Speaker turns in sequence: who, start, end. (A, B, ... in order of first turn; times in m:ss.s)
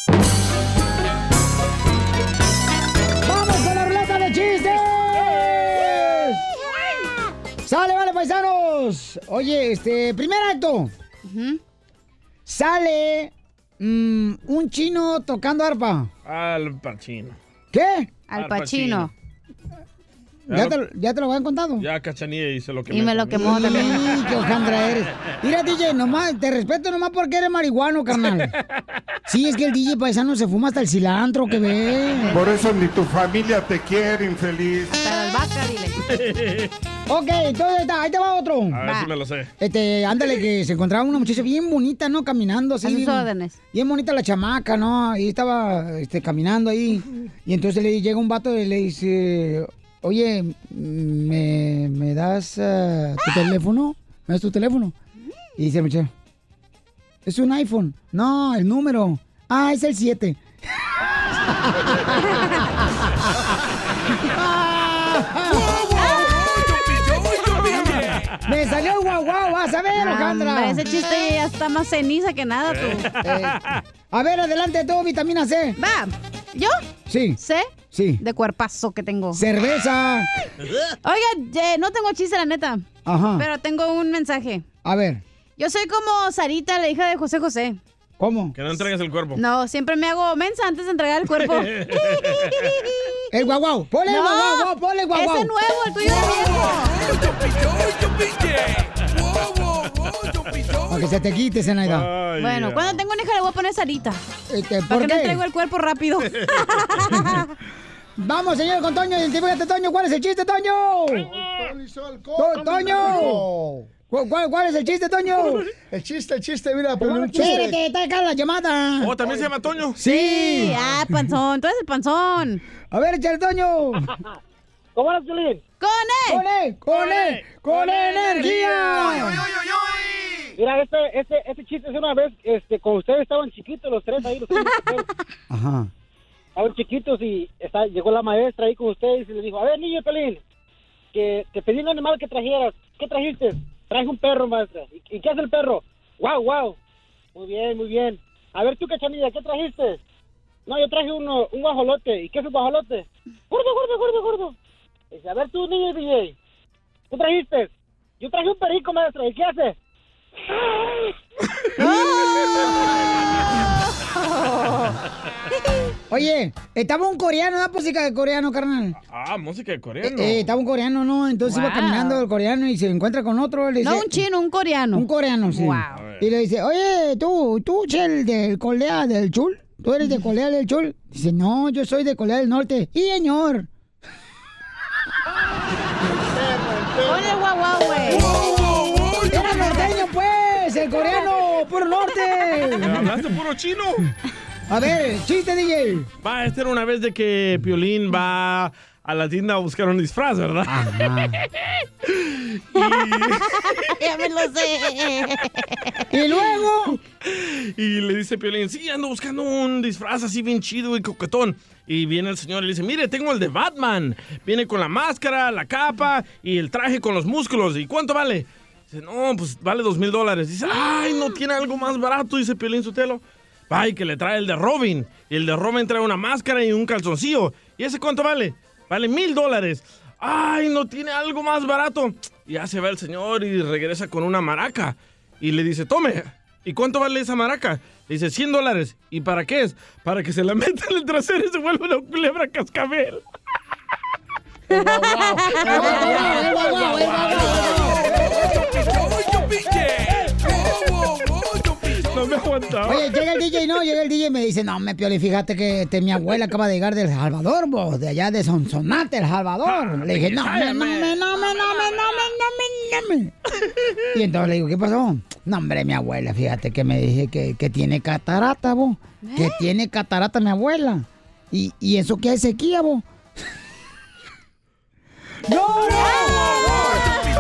0:03.2-0:06.4 A
0:07.6-0:10.9 A
0:11.2-0:11.6 B
0:12.5-0:16.1 A
0:16.2-0:17.4 C
0:17.7-0:18.1 A
0:18.3-0:19.1 B
0:18.3-0:19.1 C
0:20.5-0:21.9 A
0:20.5-0:20.8 C
0:21.8-0:25.0 C
0:22.9-0:24.2 B
0:23.3-0:28.5 A
0:28.2-0:28.5 C
0:29.3-0:32.4 A
0:32.3-0:35.1 D
0:34.9-0:36.0 B
0:36.0-0:36.7 C
0:37.1-0:38.8 A
0:38.7-0:39.5 C
0:38.8-0:39.1 B
0:39.6-0:55.0 A
0:42.8-0:43.6 B
0:55.6-0:56.1 A
0:57.2-1:00.4 A
1:01.5-1:02.6 A
1:04.2-1:06.3 A
1:05.9-1:06.4 B
1:07.7-1:08.2 C
1:08.4-1:10.9 A
1:10.0-1:13.1 B
1:12.7-1:13.8 C
1:13.2-1:13.6 A
1:14.1-1:15.8 A
1:15.8-1:16.8 B
1:17.1-1:17.4 A
1:17.4-1:19.4 B
1:17.9-1:18.2 A
1:19.3-1:20.3 A
1:20.6-1:20.9 C
1:21.0-1:22.8 B
1:23.0-1:23.5 A
1:23.4-1:24.6 B
1:24.8-1:25.2 A
1:25.6-1:27.8 B
1:28.2-1:28.6 A
1:28.6-1:29.4 C
1:29.4-1:33.2 B
1:31.4-1:32.6 C
1:33.3-1:35.5 A
1:34.1-1:37.2 B
1:40.9-1:42.1 A
1:41.8-1:43.0 C
1:42.4-1:44.2 B
1:44.5-1:45.4 A
1:44.9-1:47.4 B
1:46.4-1:47.2 C
1:48.2-1:51.3 A
1:51.3-1:53.9 E
1:52.4-1:53.5 A
1:54.1-1:55.7 A
1:55.9-1:57.8 E
1:57.0-1:59.2 A
1:59.0-2:00.0 C
1:59.2-1:59.5 E
2:00.0-2:00.8 A
2:00.0-2:02.6 B
2:02.9-2:04.1 A
2:05.0-2:05.6 F
2:05.8-2:06.4 B
2:06.3-2:09.4 A
2:06.9-2:09.5 C
2:10.6-2:15.0 F
2:15.5-2:15.9 A
2:16.6-2:20.4 F
2:21.1-2:26.8 F
2:27.4-2:30.0 F
2:30.7-2:34.5 F
2:35.1-2:36.3 F
2:37.1-2:39.8 F
2:41.8-2:43.0 A
2:44.1-2:45.0 B
2:46.1-2:49.0 A
2:49.1-2:50.5 C
2:50.0-2:54.2 A
2:51.5-2:52.2 B
2:53.8-2:56.0 B
2:54.9-3:03.7 A
2:55.9-2:56.2 C
3:06.4-3:07.3 E
3:07.0-3:09.8 B
3:09.3-3:13.2 A
3:12.8-3:14.1 C
3:14.7-3:16.1 A
3:16.2-3:21.0 C
3:20.7-3:21.4 A
3:22.2-3:23.9 C
3:23.5-3:26.0 B
3:26.1-3:27.0 A
3:27.2-4:03.2 C
4:04.7-4:07.1 B
4:05.6-4:08.3 A
4:05.7-4:07.9 C
4:11.9-4:13.1 C
4:12.8-4:23.3 A
4:19.6-4:21.2 C
4:21.3-4:22.2 B
4:24.1-4:33.0 A
4:29.2-4:29.6 B
4:35.5-4:36.9 A
4:36.0-4:37.0 B